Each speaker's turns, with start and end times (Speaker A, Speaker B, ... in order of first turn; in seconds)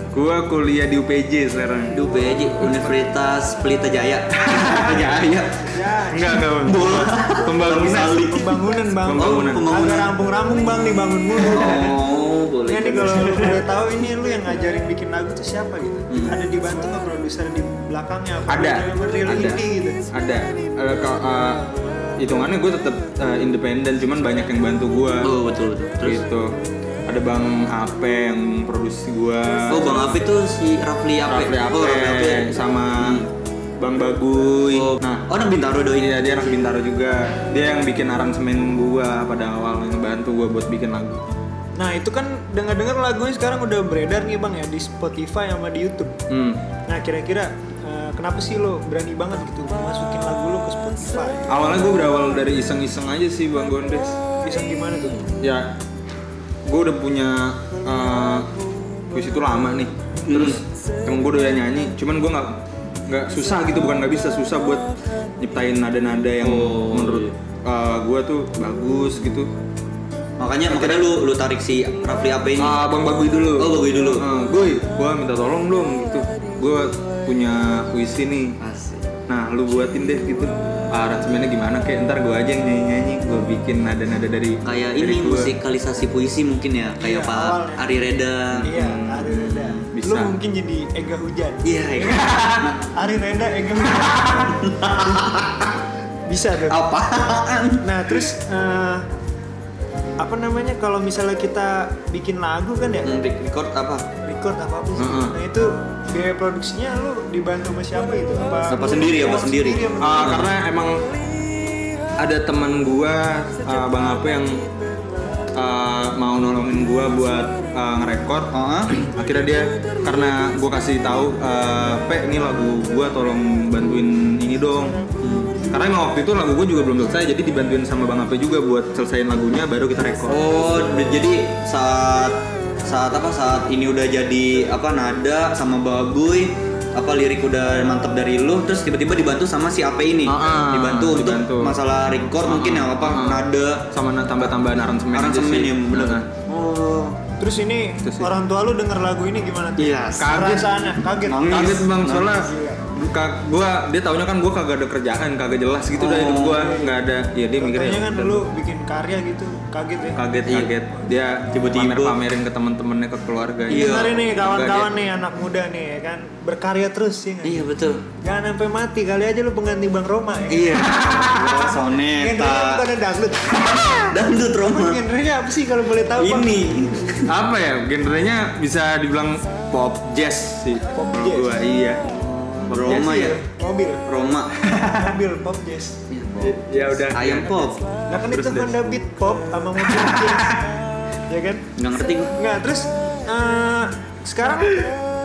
Speaker A: 0.1-2.0, 4.4-5.0, 6.1-8.3, 9.0-9.7, 18.5-21.6, 22.2-25.3, 26.0-26.5, 27.1-30.0, 31.3-33.2, 33.8-35.3, 35.9-41.2, 46.3-46.6, 51.5-54.2, 55.4-55.7, 56.6-58.5, 59.1-62.5, 63.1-64.8, 65.4-69.5, 70.7-71.1, 72.6-78.6, 79.3-85.5, 88.5-90.3, 92.2-92.7, 105.0-105.3, 110.0-111.0, 112.2-114.6, 115.5-125.0, 125.7-130.5, 140.3-141.8, 142.4-146.2, 148.0-148.3, 150.2-150.7, 151.5-158.4, 160.2-164.9, 170.7-171.6, 177.2-182.1, 182.7-183.2, 184.7-185.0, 186.4-187.7, 188.3-188.8, 189.9-190.5
Speaker B: 1.9-5.7, 6.5-8.6, 9.1-10.1, 11.4-13.5, 16.1-16.4, 25.2-26.2, 29.7-33.3, 34.7-36.1, 60.3-60.6, 66.4-67.3, 70.4-72.8, 73.6-74.2, 78.6-79.1, 84.6-88.7, 91.6-92.8, 94.4-95.7, 96.7-97.8, 103.0-104.1, 108.7-110.5, 118.5-118.9, 125.2-125.5, 130.3-144.5, 145.1-147.2, 149.8-150.4, 151.2-152.3, 155.9-156.8, 161.5-162.2, 163.7-164.2, 167.4-168.0, 170.5-172.8, 173.9-175.0, 176.2-177.3, 182.2-183.4, 184.1-184.5, 186.1-187.8, 191.8-192.3
Speaker C: 5.6-6.5, 8.0-11.9, 12.7-20.0, 41.8-46.1, 46.9-51.9, 54.4-55.2, 87.0-87.8, 88.7-95.3, 96.3-96.8, 97.8-99.0, 100.2-103.1, 104.2-110.5, 147.4-152.8, 156.6-156.9, 157.6-160.2, 163.7-167.7, 168.2-170.8, 172.2-173.9, 174.7-176.5, 180.9-181.5, 182.8-184.0, 184.8-186.0, 188.1-190.6, 191.3-191.6, 192.3-194.9